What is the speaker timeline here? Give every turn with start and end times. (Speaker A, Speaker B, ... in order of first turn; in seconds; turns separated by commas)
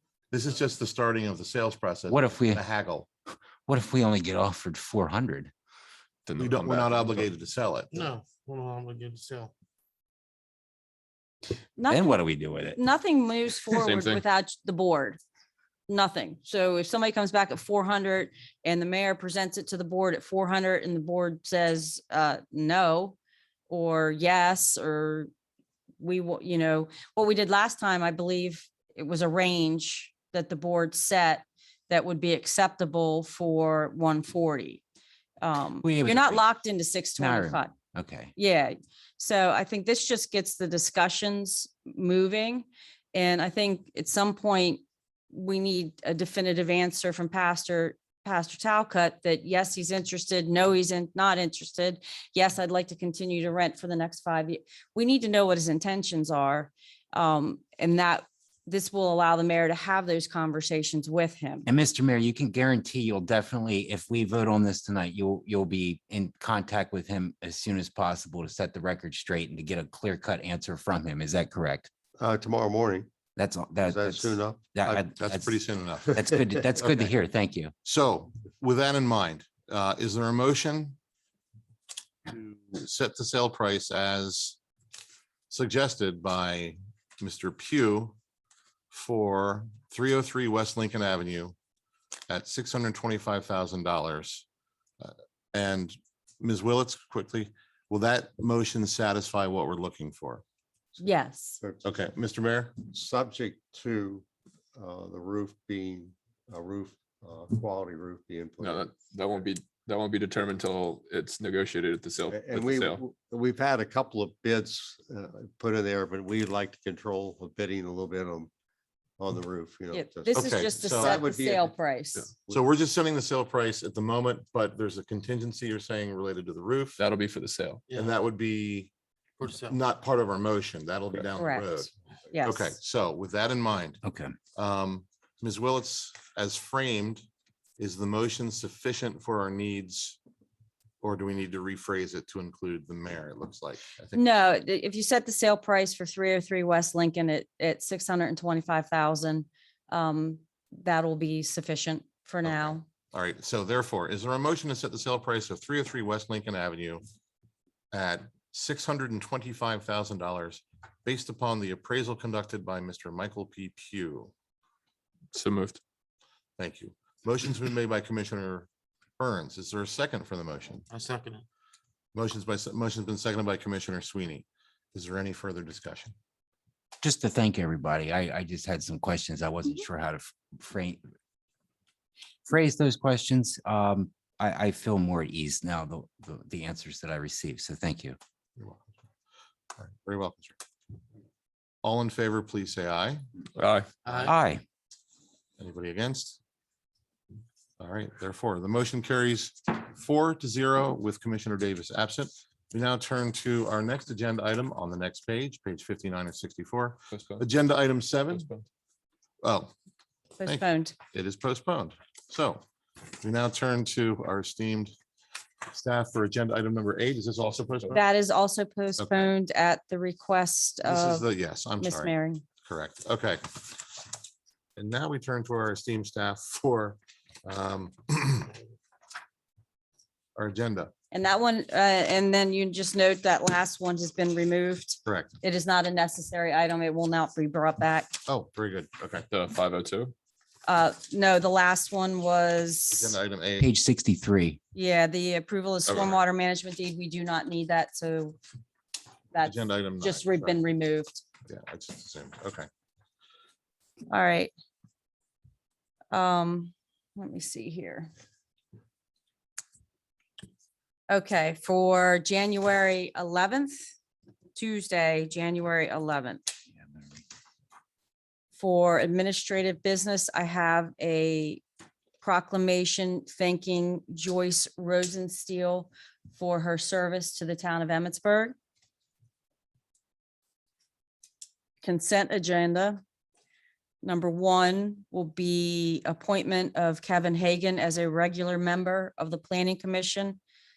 Speaker A: 0.3-3.1, Speaker B: 2.1-2.6, Speaker B: 3.7-5.5, Speaker C: 6.3-7.3, Speaker A: 6.4-8.1, Speaker D: 7.9-9.5, Speaker E: 11.8-12.2, Speaker B: 11.9-12.8, Speaker E: 12.7-15.2, Speaker C: 13.7-14.2, Speaker E: 15.9-23.2, Speaker E: 23.7-25.3, Speaker E: 26.0-34.8, Speaker E: 35.4-37.7, Speaker B: 35.8-36.5, Speaker B: 37.2-38.3, Speaker E: 38.4-61.7, Speaker B: 61.7-71.9, Speaker F: 72.2-73.1, Speaker B: 73.4-75.6, Speaker F: 73.8-75.1, Speaker A: 75.2-76.2, Speaker B: 76.1-77.7, Speaker A: 77.8-81.0, Speaker A: 82.3-84.6, Speaker A: 85.5-88.2, Speaker A: 88.9-91.5, Speaker A: 92.3-94.5, Speaker A: 95.0-100.4, Speaker E: 101.0-101.6, Speaker A: 101.8-102.8, Speaker F: 102.9-108.9, Speaker C: 108.6-113.0, Speaker F: 112.3-118.5, Speaker F: 119.2-121.8, Speaker E: 119.9-122.2, Speaker A: 120.3-121.2, Speaker A: 122.5-127.0, Speaker C: 127.0-127.8, Speaker D: 127.9-128.2, Speaker A: 127.9-128.9, Speaker D: 129.4-129.8, Speaker A: 129.6-134.0, Speaker E: 131.3-132.8, Speaker B: 134.0-134.3, Speaker A: 134.6-137.2, Speaker A: 137.8-140.2, Speaker A: 141.0-144.2, Speaker E: 144.1-152.8, Speaker A: 152.4-157.0, Speaker A: 157.9-164.3, Speaker C: 165.3-165.8, Speaker A: 166.6-168.7, Speaker A: 169.2-170.8, Speaker D: 170.9-171.4, Speaker A: 172.1-176.2, Speaker B: 177.0-181.0, Speaker B: 182.5-188.2, Speaker A: 188.6-188.8, Speaker A: 189.8-190.6, Speaker A: 191.8-193.2, Speaker C: 193.6-193.9, Speaker D: 194.1-194.3, Speaker A: 194.1-194.3, Speaker B: 194.2-194.6, Speaker A: 195.6-196.4, Speaker A: 197.8-208.5, Speaker C: 207.1-207.5, Speaker C: 208.3-208.7, Speaker A: 209.4-209.7, Speaker E: 210.4-211.0, Speaker A: 210.4-212.6, Speaker A: 213.2-214.9, Speaker A: 215.7-218.0, Speaker C: 217.4-218.0, Speaker E: 217.9-221.3, Speaker A: 219.0-219.3, Speaker A: 220.8-222.1, Speaker E: 221.8-222.4, Speaker A: 222.7-223.8, Speaker A: 224.8-228.5, Speaker A: 230.3-230.9, Speaker E: 231.1-238.1, Speaker A: 235.1-235.3, Speaker A: 238.3-239.2, Speaker C: 239.3-240.1, Speaker E: 240.7-243.2, Speaker A: 242.9-243.7, Speaker B: 243.6-244.6, Speaker E: 244.7-248.4, Speaker C: 245.9-246.1, Speaker E: 249.3-251.2, Speaker A: 249.4-250.6, Speaker A: 251.5-252.7, Speaker E: 254.1-254.5, Speaker E: 256.1-258.1, Speaker E: 261.1-263.9, Speaker E: 264.6-266.4, Speaker E: 268.6-271.6, Speaker E: 272.2-278.6, Speaker E: 281.8-283.0, Speaker E: 284.0-290.4